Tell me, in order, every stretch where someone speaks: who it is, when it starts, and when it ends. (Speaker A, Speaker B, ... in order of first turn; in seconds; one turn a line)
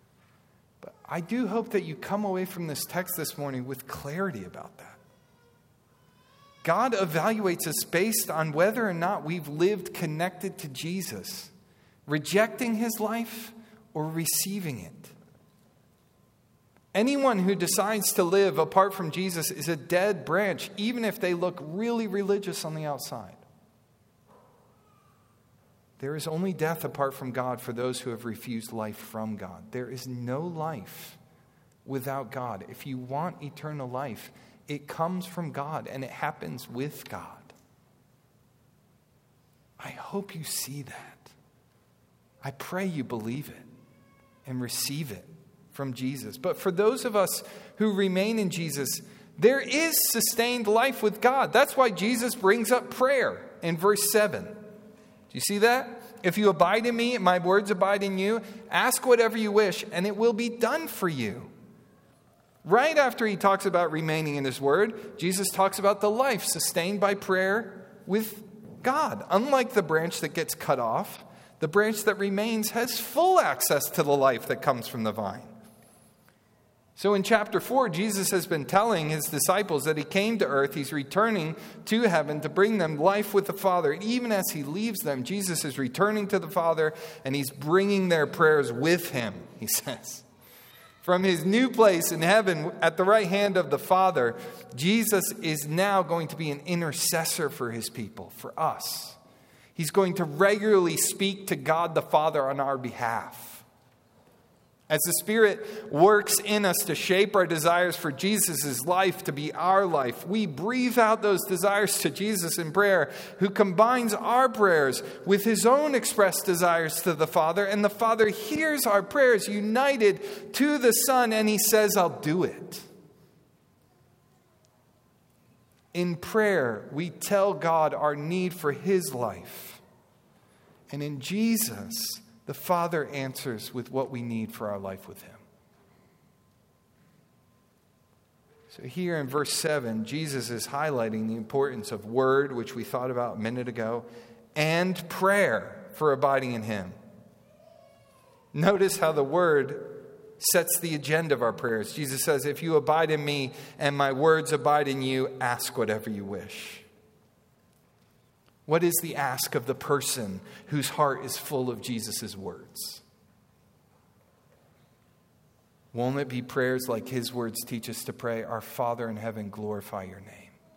Speaker A: 0.8-5.0
Speaker A: 6.6-11.5
Speaker A: 12.1-15.1
Speaker A: 16.9-23.4
Speaker A: 26.0-31.2
Speaker A: 31.9-37.5
Speaker A: 39.8-41.3
Speaker A: 42.4-43.7
Speaker A: 44.5-54.7
Speaker A: 55.3-61.5
Speaker A: 62.6-75.5
Speaker A: 77.0-90.2
Speaker A: 91.0-99.2
Speaker A: 99.8-103.7
Speaker A: 104.9-122.9
Speaker A: 125.9-129.8
Speaker A: 130.9-135.4
Speaker A: 138.7-146.9
Speaker A: 148.5-156.9
Speaker A: 158.7-163.0
Speaker A: 165.9-170.6